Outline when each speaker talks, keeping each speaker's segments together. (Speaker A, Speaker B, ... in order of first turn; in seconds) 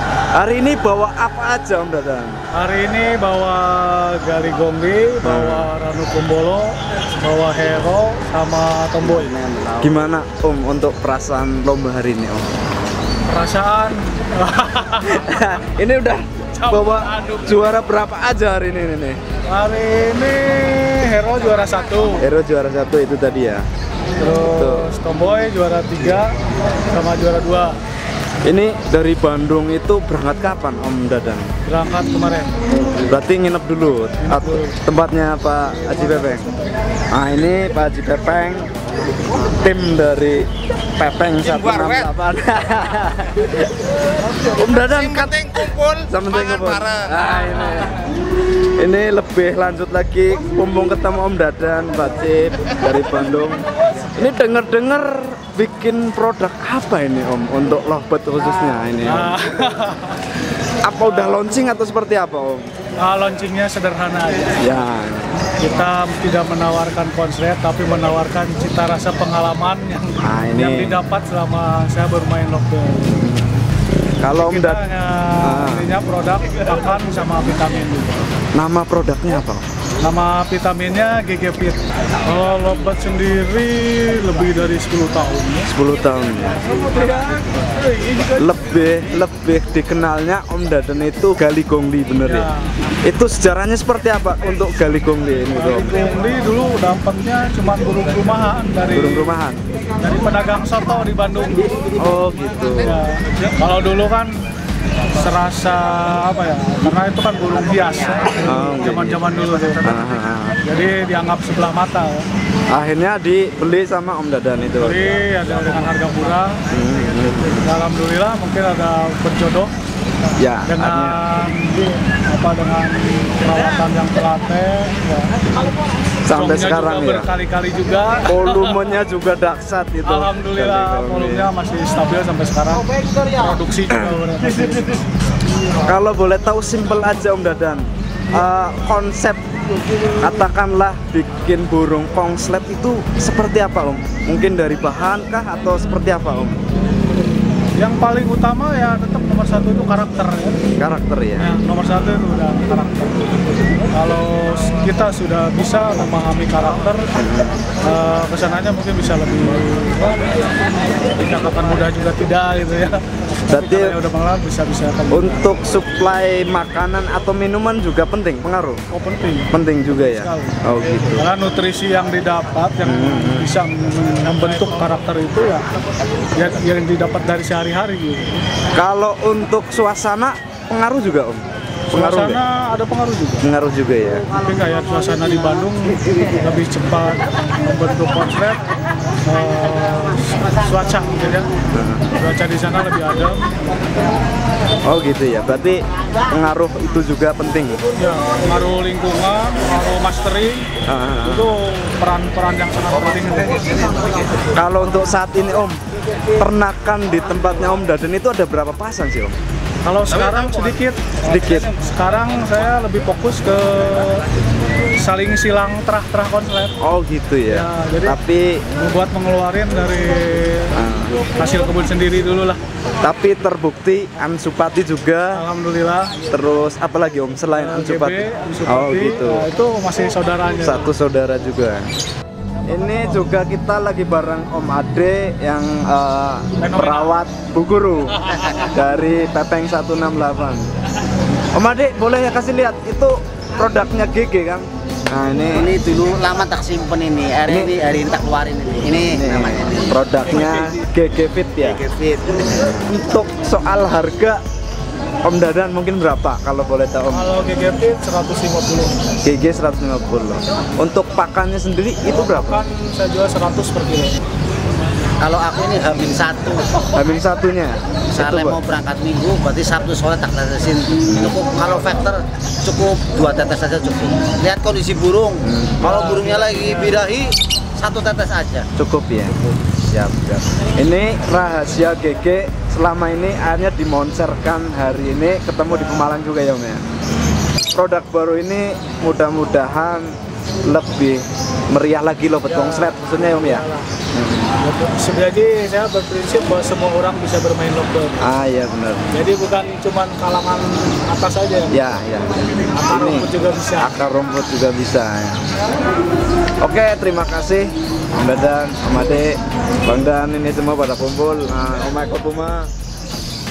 Speaker A: 0.3-2.4, 5.2-5.7, 9.8-12.5, 15.0-19.2, 22.2-23.6, 24.5-24.9, 28.4-31.5, 33.0-36.5, 37.1-38.7, 39.2-48.1, 48.8-59.5, 60.8-62.7, 64.6-65.4, 70.2-71.0, 73.2-73.6, 74.2-74.8, 75.4-75.9, 78.5-79.7, 85.7-86.7, 88.3-92.5, 93.0-96.0, 98.9-99.6, 102.0-103.0, 108.4-109.3, 109.8-110.6, 112.7-115.0, 116.7-117.7, 120.4-121.2, 126.2-127.3, 128.2-131.5, 133.9-134.3, 135.8-139.4, 140.0-146.6, 150.8-151.6, 157.2-157.6, 163.5-164.0, 165.1-168.8, 169.5-171.3, 172.8-173.6, 178.7-182.4, 183.4-184.3, 191.7-192.1, 194.9-197.8, 200.9-201.6, 204.5-205.8, 206.4-209.4, 211.2-211.7, 216.8-218.6, 220.7-221.2, 223.0-225.4, 226.3-229.5, 230.6-231.9, 232.7-240.7, 241.5-245.7, 247.5-247.8, 249.1-251.8, 252.5-254.4, 255.2-257.3, 259.2-262.7, 266.9-268.6, 271.1-271.4, 275.4-275.8, 278.8-286.9, 287.7-294.5, 298.2-299.1, 301.7-305.6, 306.6-312.7
Speaker B: 2.5-9.3, 13.3-15.4, 16.5-17.5, 19.5-22.3, 24.2-26.3, 26.9-27.8, 31.6-32.5, 34.2-34.8, 35.9-36.8, 59.0-60.4, 61.0-61.4, 63.0-64.6, 65.6-73.2, 74.3-78.2, 80.0-85.7, 86.7-88.5, 92.2-92.7, 95.6-99.4, 100.0-102.0, 102.7-104.4, 105.1-110.0, 110.6-112.3, 114.8-116.6, 117.6-119.7, 120.7-125.5, 126.3-128.8, 130.1-135.1, 147.8-150.6, 151.4-153.2, 153.9-157.1, 157.8-160.3, 161.1-165.5, 168.9-175.7, 176.4-178.4, 181.9-183.5, 184.3-188.6, 189.2-193.6, 198.0-200.7, 201.2-204.1, 209.8-214.2, 215.0-216.8, 217.5-218.2, 218.8-220.8, 221.3-222.6, 225.3-226.2, 227.5-230.9, 236.6-237.1, 250.4-250.8, 257.1-259.0, 262.1-264.2, 275.8-277.1, 285.7-286.1, 292.4-293.9, 294.6-298.2, 299.1-301.8, 302.7-303.9
Speaker C: 9.0-10.0, 245.5-249.9, 251.6-252.5, 265.2-266.7, 268.1-278.7